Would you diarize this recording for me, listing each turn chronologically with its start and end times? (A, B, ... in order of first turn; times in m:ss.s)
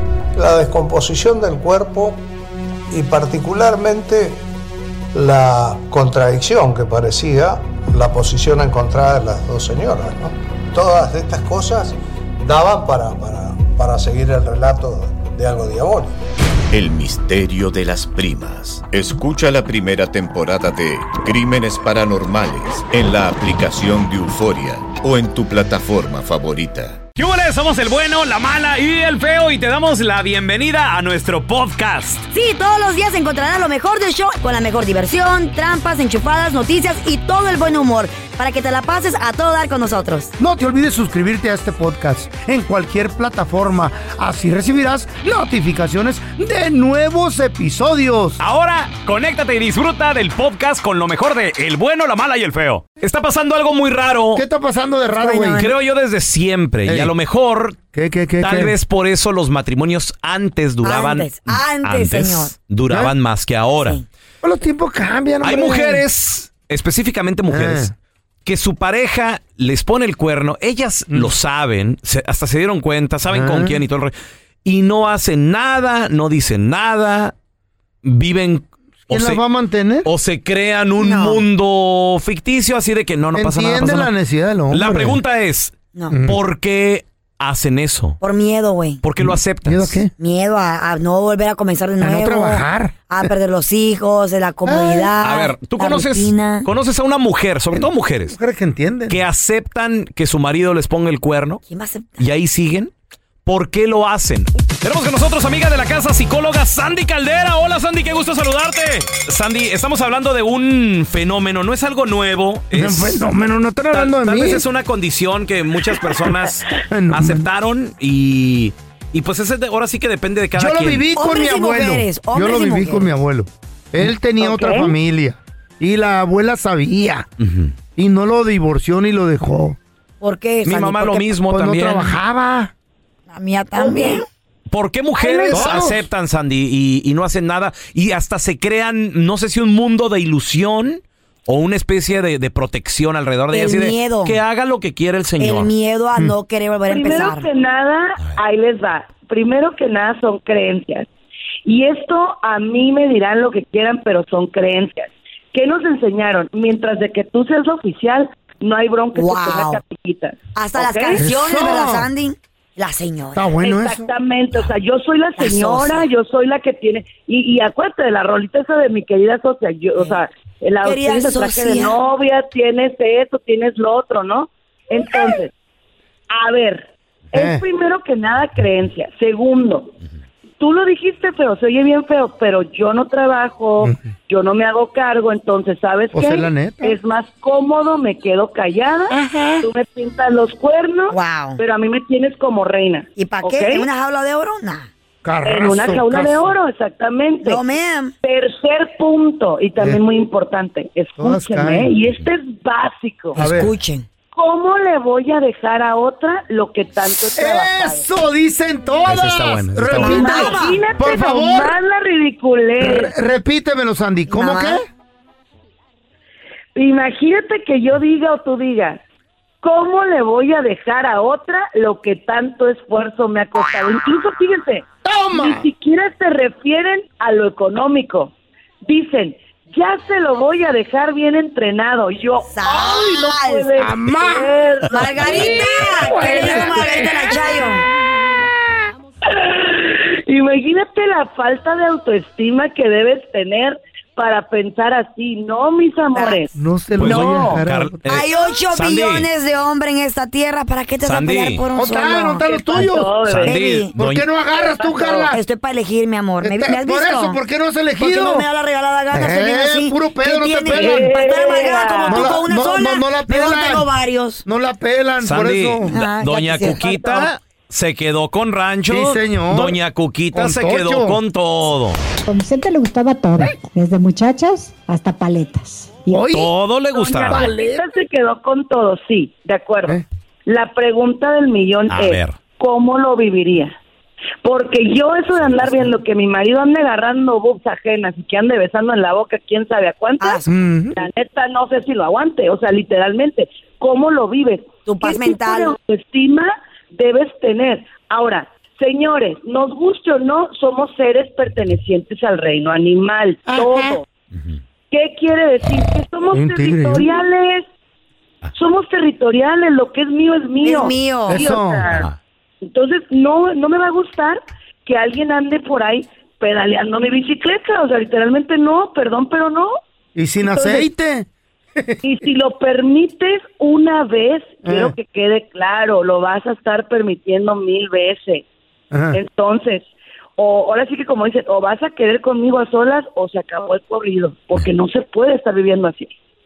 0:00.4-0:02.2 A
0:02.9-0:04.4 A
0:05.1-0:16.2 A
0:16.7-0:27.0 B
0:27.2-0:32.2 C
0:32.3-0:40.3 D
0:40.4-0:48.4 E
0:48.4-0:54.4 C
0:54.4-0:55.7 E
0:55.2-0:55.7 D
0:55.6-0:57.8 C
0:56.9-0:57.1 E
0:57.9-0:58.8 E
0:58.4-1:04.0 C
1:00.8-1:02.5 D
1:04.4-1:06.0 E
1:05.4-1:07.9 C
1:07.5-1:07.9 E
1:08.5-1:14.1 C
1:13.3-1:13.8 E
1:14.6-1:17.4 C
1:18.0-1:19.4 C
1:19.1-1:20.1 E
1:20.0-1:24.1 C
1:21.0-1:21.4 D
1:23.4-1:25.2 E
1:24.7-1:25.7 C
1:26.1-1:26.4 E
1:26.3-1:28.2 C
1:28.2-1:29.0 D
1:29.0-1:30.0 C
1:29.2-1:30.1 E
1:30.2-1:36.7 D
1:32.0-1:33.3 E
1:34.7-1:35.1 E
1:35.2-1:38.4 C
1:37.7-1:39.2 E
1:39.1-1:41.6 C
1:41.7-1:42.2 D
1:42.2-1:42.9 C
1:43.4-1:53.2 C
1:52.7-1:54.6 E
1:53.9-2:01.0 C
1:56.8-1:57.5 E
2:00.6-2:07.3 E
2:01.2-2:03.1 D
2:04.4-2:04.9 F
2:07.4-2:07.8 C
2:08.0-2:09.8 E
2:10.2-2:11.3 D
2:10.6-2:12.2 C
2:11.5-2:12.7 E
2:13.3-2:14.2 D
2:14.7-2:25.7 C
2:15.2-2:15.9 F
2:15.5-2:16.0 E
2:23.5-2:24.4 D
2:25.4-2:27.5 D
2:26.9-2:31.1 F
2:31.6-2:41.2 F
2:39.2-2:39.8 D
2:40.5-2:43.5 D
2:41.2-2:42.1 E
2:43.4-2:44.1 E
2:43.6-2:55.5 F
2:45.4-2:46.1 D
2:50.8-2:52.0 D
2:56.3-2:59.9 F
2:57.4-2:57.6 E
3:00.6-3:13.9 F
3:06.1-3:07.0 E
3:09.1-3:09.6 E
3:11.1-3:11.6 D
3:13.2-3:14.9 D
3:15.2-3:16.5 E
3:15.4-3:17.6 F
3:17.4-3:18.1 D
3:18.2-3:23.4 F
3:19.8-3:20.0 E
3:21.2-3:21.9 E
3:23.4-3:23.7 E
3:23.4-3:24.1 D
3:24.3-3:28.1 F
3:27.3-3:31.8 E
3:29.1-3:30.6 C
3:30.0-3:33.1 F
3:30.1-3:30.8 D
3:32.8-3:34.9 E
3:34.3-3:34.8 D
3:36.8-3:39.0 F
3:39.6-3:48.3 F
3:45.0-3:45.7 E
3:48.8-3:56.8 F
3:52.5-3:53.7 D
3:53.8-3:54.5 E
3:54.9-3:57.9 D
3:55.2-3:57.0 E
3:59.3-4:06.5 F
4:06.5-4:08.0 E
4:07.0-4:09.3 C
4:07.0-4:07.6 F
4:08.1-4:12.9 D
4:11.0-4:11.6 C
4:11.7-4:13.1 E
4:12.4-4:13.5 F
4:13.3-4:14.3 C
4:13.4-4:13.9 D
4:14.0-4:15.4 E
4:14.6-4:15.3 F
4:15.3-4:17.4 D
4:16.4-4:18.5 E
4:18.0-4:24.4 D
4:19.1-4:21.1 E
4:20.7-4:22.3 F
4:22.1-4:23.9 E
4:24.4-4:25.9 E
4:25.2-4:32.0 C
4:25.9-4:26.8 D
4:26.6-4:27.3 F
4:28.9-4:29.8 E
4:30.3-4:31.2 E
4:32.3-4:36.3 G
4:36.1-4:36.5 E
4:36.3-4:37.5 C
4:36.9-4:43.8 F
4:37.3-4:37.9 E
4:41.9-4:42.4 C
4:44.4-4:50.4 F
4:50.2-4:50.6 D
4:50.5-4:51.0 E
4:50.9-5:04.0 F
4:54.9-4:55.8 D
5:03.5-5:04.0 E
5:04.3-5:04.6 C
5:04.9-5:07.7 F
5:06.3-5:07.1 E
5:08.6-5:12.1 F
5:10.6-5:11.5 D
5:11.3-5:11.8 E
5:11.9-5:12.2 C
5:12.7-5:19.8 F
5:20.2-5:22.0 E
5:20.4-5:20.8 F
5:22.0-5:28.4 F
5:24.6-5:24.9 E
5:28.9-5:29.2 E
5:29.1-5:36.1 F